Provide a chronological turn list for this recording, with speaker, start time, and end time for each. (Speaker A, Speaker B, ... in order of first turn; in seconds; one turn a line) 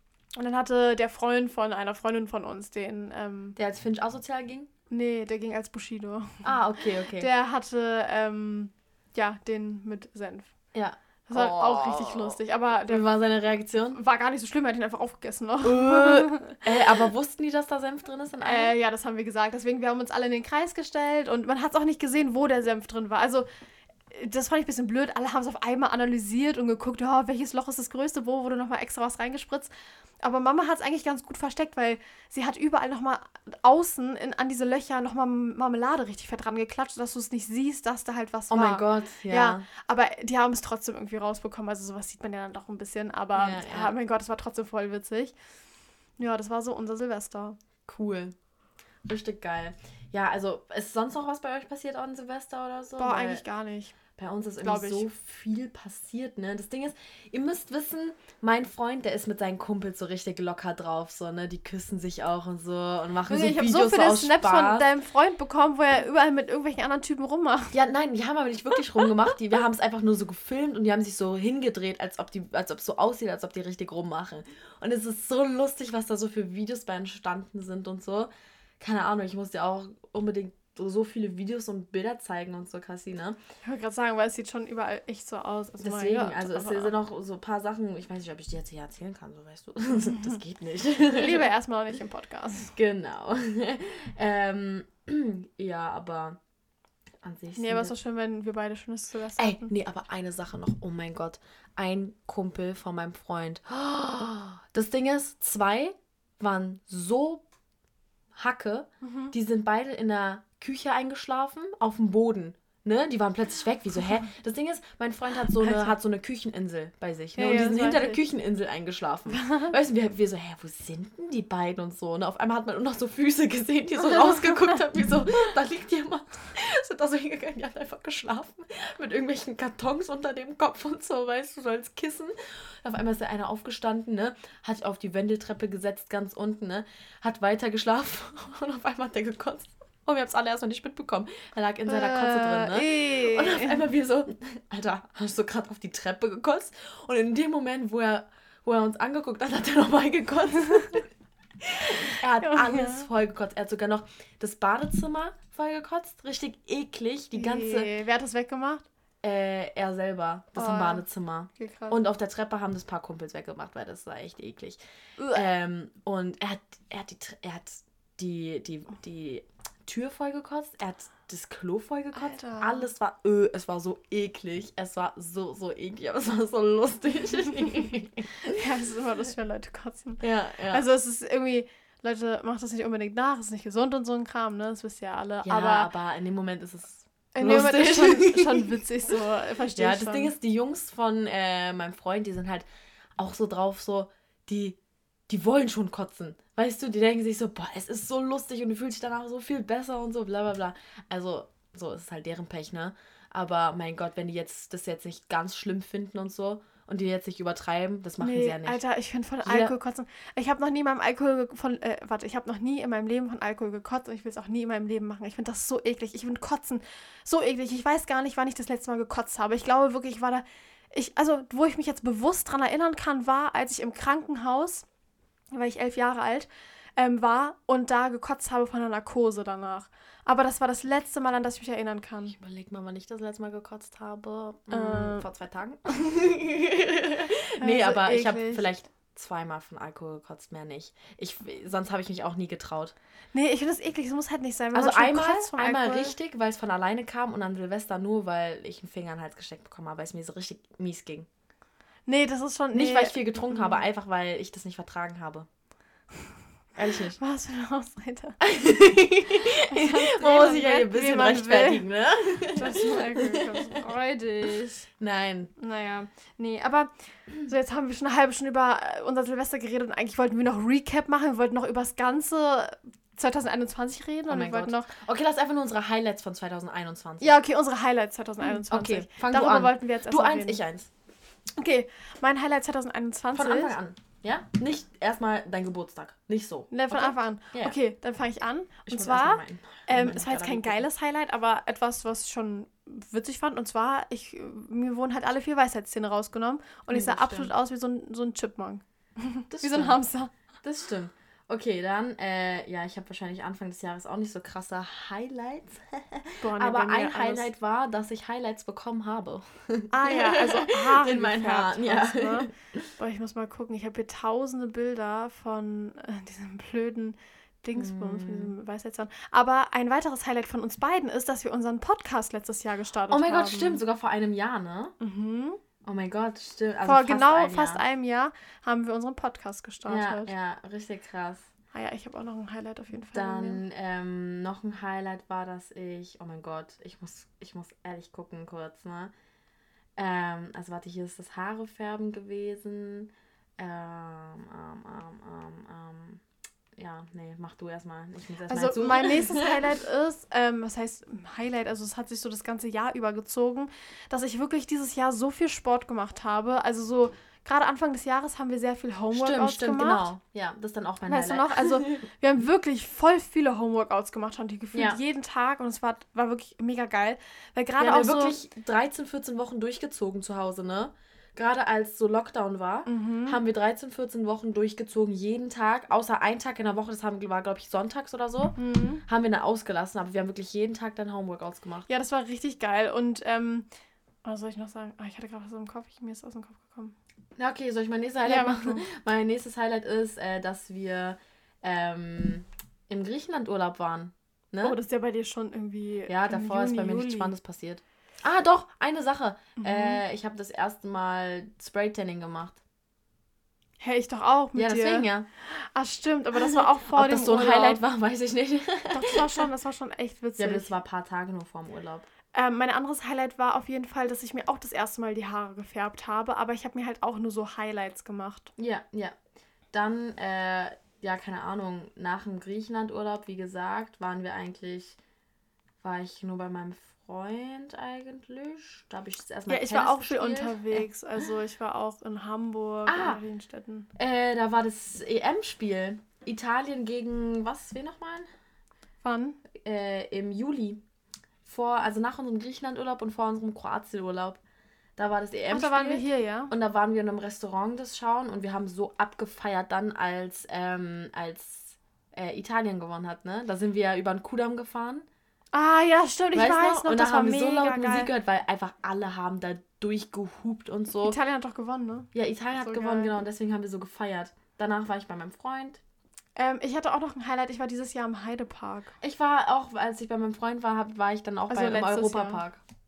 Speaker A: 0.3-3.5
Speaker B: 3.5-4.7
Speaker A: 4.9-6.5
Speaker B: 6.4-7.3
Speaker A: 7.1-10.5
Speaker B: 10.7-14.0
Speaker A: 11.3-13.2
Speaker A: 13.9-16.8
Speaker B: 15.6-18.7
Speaker A: 18.4-23.4
Speaker A: 24.1-29.7
Speaker A: 30.2-45.3
Speaker B: 38.5-39.6
Speaker B: 43.3-43.9
Speaker A: 46.2-47.6
Speaker B: 47.9-48.3
Speaker B: 49.0-53.4
Speaker A: 53.0-53.9
Speaker B: 54.2-64.9
Speaker A: 54.6-55.1
Speaker A: 63.3-67.8
Speaker B: 67.7-83.4
Speaker A: 83.6-86.9
Speaker B: 85.8-91.5
Speaker A: 91.1-92.7
Speaker B: 92.7-96.4
Speaker B: 97.2-97.9
Speaker A: 97.5-99.7
Speaker B: 99.4-107.4
Speaker B: 108.3-151.1
Speaker A: 109.0-109.3
Speaker A: 115.6-116.0
Speaker A: 117.4-118.2
Speaker A: 119.3-119.7
Speaker A: 141.8-143.8
Speaker B: 151.6-157.9
Speaker A: 152.4-153.1
Speaker A: 157.3-158.8
Speaker B: 159.2-164.8
Speaker A: 160.5-161.0
Speaker A: 161.6-162.0
Speaker A: 165.2-165.4
Speaker B: 165.3-178.6
Speaker A: 172.1-172.9
Speaker A: 178.4-185.9
Speaker B: 180.2-180.8
Speaker B: 185.4-188.8
Speaker A: 187.3-190.3
Speaker B: 189.8-192.6
Speaker B: 193.2-194.8
Speaker B: 195.3-208.8
Speaker A: 208.2-224.8
Speaker B: 209.4-209.7
Speaker A: 225.5-232.3
Speaker B: 232.3-242.9
Speaker A: 234.7-235.2
Speaker A: 237.6-238.7
Speaker A: 243.3-246.1
Speaker B: 244.7-251.3
Speaker A: 252.1-253.8
Speaker B: 252.7-255.5
Speaker B: 256.8-257.2
Speaker A: 257.2-258.4
Speaker B: 258.4-263.9
Speaker A: 259.6-261.8
Speaker A: 262.5-264.9
Speaker B: 265.0-265.5
Speaker A: 265.6-274.9
Speaker B: 274.3-277.4
Speaker A: 277.2-280.6
Speaker B: 278.4-280.9
Speaker A: 281.6-283.7
Speaker B: 283.3-287.8
Speaker A: 286.7-300.3
Speaker B: 288.9-290.9
Speaker B: 296.9-297.5
Speaker B: 299.5-300.0
Speaker B: 300.6-312.9
Speaker A: 306.4-307.5
Speaker A: 309.9-323.8
Speaker B: 317.8-318.5
Speaker B: 323.1-324.9
Speaker A: 325.0-325.6
Speaker B: 325.8-327.8
Speaker A: 326.8-330.3
Speaker B: 329.9-331.5
Speaker A: 331.7-333.6
Speaker B: 333.1-339.1
Speaker B: 340.0-346.2
Speaker B: 346.8-349.6
Speaker A: 348.5-360.1
Speaker B: 359.1-362.0
Speaker A: 361.0-368.4
Speaker B: 364.7-365.0
Speaker B: 367.8-381.9
Speaker A: 372.9-373.4
Speaker A: 378.6-379.0
Speaker A: 381.9-383.7
Speaker A: 384.2-386.9
Speaker B: 387.4-394.8
Speaker A: 388.2-388.8
Speaker A: 394.6-397.3
Speaker B: 396.1-402.6
Speaker A: 399.6-400.0
Speaker A: 403.8-407.8
Speaker B: 404.5-405.3
Speaker B: 406.5-409.2
Speaker A: 408.9-410.7
Speaker B: 410.4-412.1
Speaker A: 412.3-418.5
Speaker B: 418.6-419.1
Speaker B: 419.7-425.0
Speaker B: 425.8-430.9
Speaker A: 429.5-433.9
Speaker B: 432.9-433.2
Speaker B: 433.9-438.3
Speaker A: 439.0-439.4
Speaker B: 439.5-440.8
Speaker B: 441.4-444.4
Speaker B: 445.0-455.1
Speaker A: 445.5-446.5
Speaker A: 455.5-458.1
Speaker B: 456.3-461.2
Speaker A: 461.0-463.1
Speaker B: 462.1-465.8
Speaker A: 466.4-468.9
Speaker B: 469.0-472.6
Speaker A: 471.5-472.4